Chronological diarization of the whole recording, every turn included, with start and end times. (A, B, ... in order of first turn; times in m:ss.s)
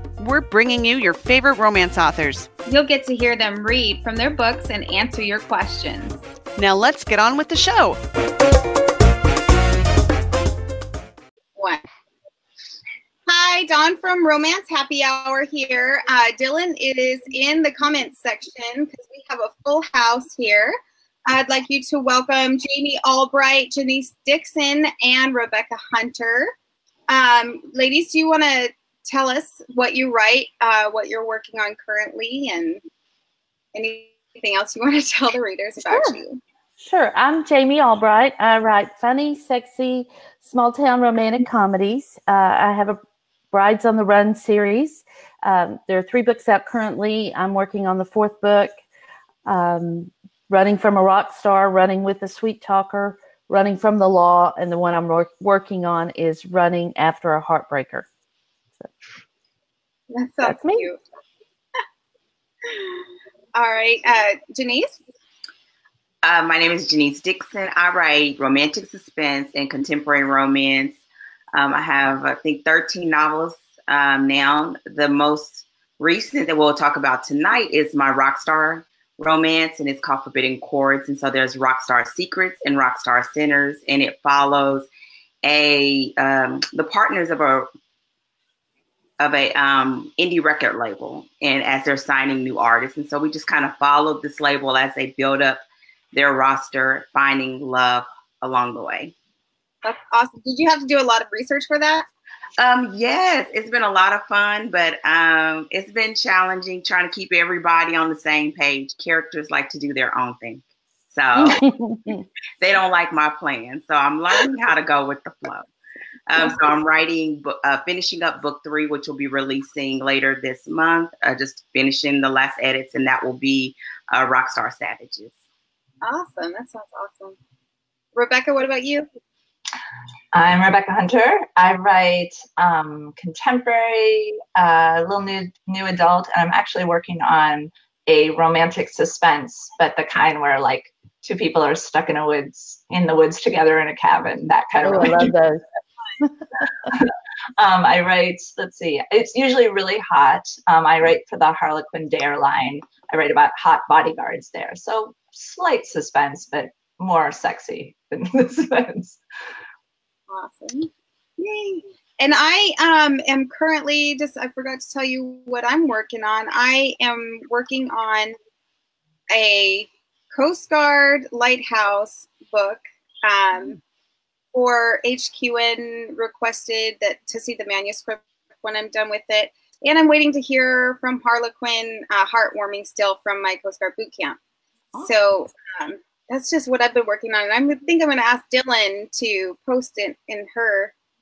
0:00.2-0:02.5 A
0:02.7-0:06.2 B
0:06.6-0:08.0 A
0:11.6-0:11.8 B
0:13.3-0:20.8 B
0:21.3-0:26.5 B
0:27.1-0:32.8 B
0:33.7-0:36.4 B
0:35.8-0:36.2 C
0:36.8-0:43.0 C
0:43.5-0:48.8 C
0:49.4-0:58.1 C
1:00.1-1:01.0 B
1:00.4-1:00.9 C
1:02.7-1:03.0 B
1:03.6-1:05.0 B
1:06.2-1:11.0 D
1:11.5-1:24.9 D
1:25.4-1:27.7 D
1:29.2-1:39.1 D
1:39.8-1:42.0 B
1:42.6-1:51.6 D
1:51.4-1:52.2 C
1:52.6-1:55.7 D
1:56.3-2:05.3 D
2:06.0-2:07.4 B
2:08.1-2:09.1 B
2:10.3-2:25.3 E
2:24.8-2:25.6 C
2:26.9-2:39.2 E
2:40.3-2:48.3 B
2:49.3-2:53.8 B
2:54.5-3:04.4 B
3:05.0-3:10.9 B